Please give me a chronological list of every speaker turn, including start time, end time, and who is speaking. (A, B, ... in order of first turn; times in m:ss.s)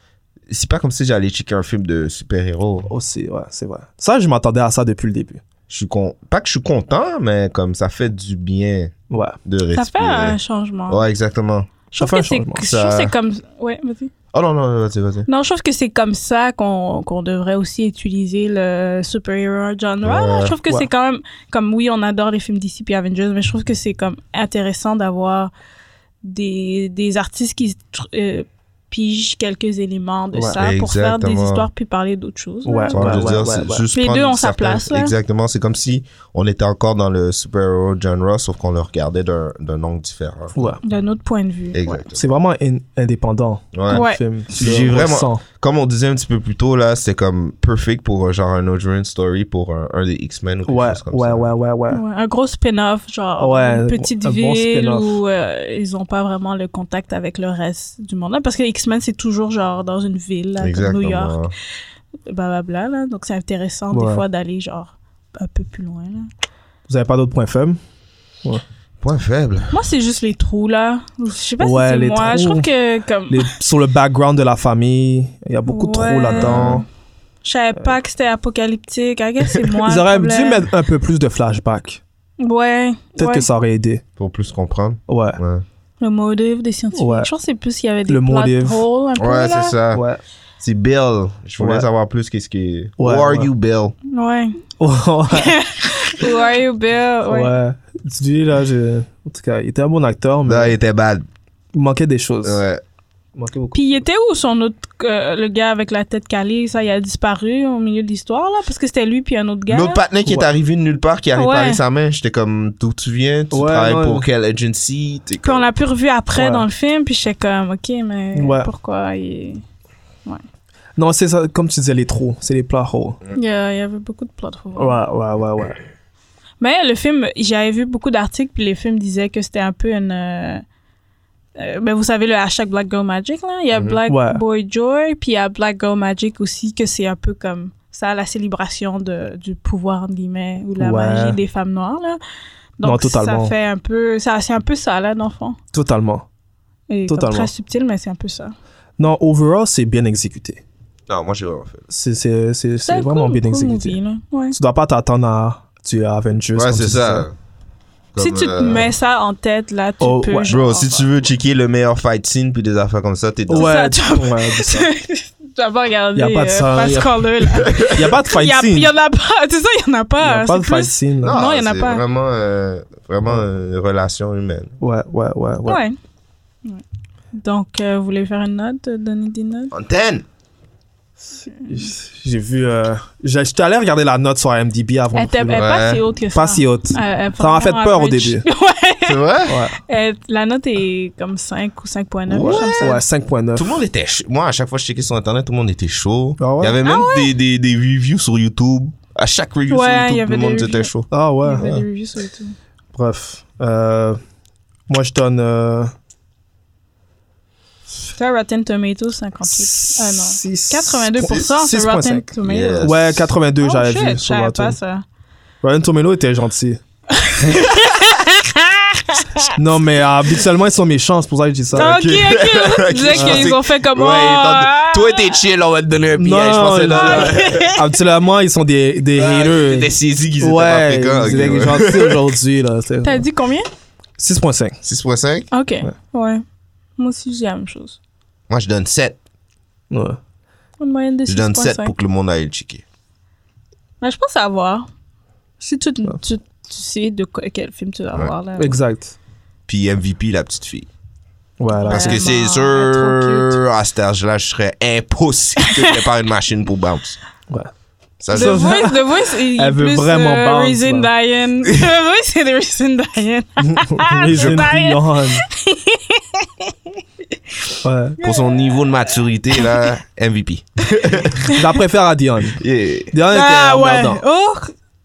0:00.5-0:02.9 A
0:02.9-0:05.4 B
0:05.7-0:08.9 A
0:09.1-0:09.4 B
0:09.5-0:11.7 A
0:09.7-0:11.0 C
0:11.9-0:14.1 C
0:12.0-0:12.6 B
0:12.6-0:13.1 A
0:14.3-0:15.3 A
0:15.3-0:25.5 C
0:20.0-0:20.6 A
0:26.2-0:33.3 C
0:30.3-0:30.6 B
0:30.6-0:31.7 A
0:32.6-0:33.8 B
0:32.9-0:40.8 A
0:33.9-0:35.1 C
0:40.6-0:40.8 B
0:40.8-0:42.0 C
0:41.7-0:42.3 A
0:42.2-0:45.4 B
0:43.7-0:51.5 A
0:43.9-0:44.2 C
0:50.7-0:52.0 B
0:51.9-1:01.5 C
0:53.4-0:55.2 B
1:00.6-1:01.5 A
1:02.3-1:06.3 C
1:03.9-1:04.2 B
1:06.9-1:07.8 B
1:09.0-1:09.8 A
1:09.7-1:13.5 C
1:11.6-1:12.7 B
1:13.3-1:16.8 B
1:15.7-1:16.8 C
1:16.4-1:16.8 A
1:17.4-1:20.7 C
1:19.8-1:22.0 B
1:22.4-1:23.5 C
1:23.2-1:24.0 B
1:24.2-1:25.6 A
1:25.1-1:25.4 B
1:26.0-1:29.8 C
1:27.0-1:27.3 B
1:28.1-1:28.8 B
1:29.2-1:30.0 A
1:29.9-1:30.2 B
1:30.6-1:34.0 A
1:31.6-1:31.9 B
1:33.0-1:33.5 B
1:34.1-1:34.6 C
1:34.8-1:35.6 B
1:35.3-1:37.5 C
1:37.3-1:40.8 B
1:40.5-1:41.3 A
1:41.7-1:42.6 B
1:42.4-1:42.8 A
1:43.4-1:44.0 B
1:43.7-1:50.0 C
1:49.7-1:55.7 A
1:51.4-1:51.8 C
1:53.5-1:54.2 B
1:55.4-1:59.6 C
1:56.4-1:56.6 B
1:58.4-1:58.7 B
2:01.0-2:03.2 B
2:03.3-2:05.0 C
2:04.8-2:05.8 B
2:06.6-2:10.6 C
2:11.6-2:22.2 C
2:13.7-2:14.0 A
2:14.1-2:14.4 B
2:20.8-2:21.4 B
2:22.8-2:25.6 C
2:22.8-2:23.5 B
2:25.7-2:26.3 B
2:26.9-2:28.5 C
2:27.1-2:27.5 B
2:29.0-2:30.6 B
2:31.1-2:31.8 A
2:31.9-2:34.0 B
2:32.9-2:34.6 C
2:34.5-2:37.3 B
2:36.6-2:37.3 A
2:38.2-2:38.9 A
2:38.2-2:41.1 C
2:40.0-2:40.6 B
2:40.5-2:43.7 A
2:43.5-2:44.9 B
2:43.6-2:52.0 C
2:46.2-2:47.1 B
2:47.6-2:48.0 A
2:47.8-2:48.9 B
2:50.2-2:51.4 B
2:51.2-2:54.7 A
2:54.8-2:55.8 B
2:55.6-2:56.0 C
2:57.3-2:59.7 C
2:59.7-3:00.2 A
3:01.3-3:05.7 B
3:01.5-3:01.9 C
3:05.1-3:09.3 C
3:05.5-3:06.0 A
3:06.3-3:08.4 B
3:09.0-3:09.6 A
3:09.5-3:09.8 B
3:09.8-3:13.0 C
3:12.3-3:13.0 A
3:12.4-3:13.8 B
3:13.6-3:21.1 A
3:16.4-3:16.8 B
3:16.8-3:17.3 C
3:19.7-3:22.6 C
3:21.1-3:21.7 B
3:21.6-3:21.9 A
3:22.9-3:24.2 B
3:24.9-3:25.9 B
3:28.2-3:32.9 C
3:29.5-3:32.3 B
3:32.4-3:33.3 A
3:32.8-3:34.8 B
3:33.6-3:35.0 C
3:35.6-3:36.8 B
3:37.2-3:39.2 C
3:39.6-3:41.9 B
3:41.8-3:45.4 C
3:41.8-3:47.7 A
3:43.1-3:43.5 B
3:46.2-3:53.2 B
3:46.9-3:47.9 C
3:49.2-3:52.4 A
3:53.0-3:53.7 C
3:54.2-3:54.8 B
3:54.8-3:55.5 A
3:55.5-3:56.4 C
3:57.0-3:58.0 C
3:58.5-3:59.2 A
3:59.9-4:00.2 B
4:00.8-4:01.9 C
4:01.3-4:02.8 A
4:04.0-4:04.9 C
4:05.6-4:08.8 C
4:08.6-4:09.2 B
4:09.7-4:10.9 A
4:11.6-4:12.3 B
4:11.7-4:13.6 C
4:11.9-4:17.2 A
4:15.6-4:16.0 C
4:18.2-4:18.7 A
4:18.3-4:21.1 B
4:18.3-4:26.9 C
4:23.6-4:25.4 B
4:24.3-4:24.6 A
4:27.8-4:28.2 B
4:28.2-4:29.8 C
4:28.2-4:31.4 A
4:31.4-4:31.7 C
4:31.5-4:32.6 B
4:32.6-4:33.1 A
4:33.1-4:34.2 B
4:33.3-4:34.7 C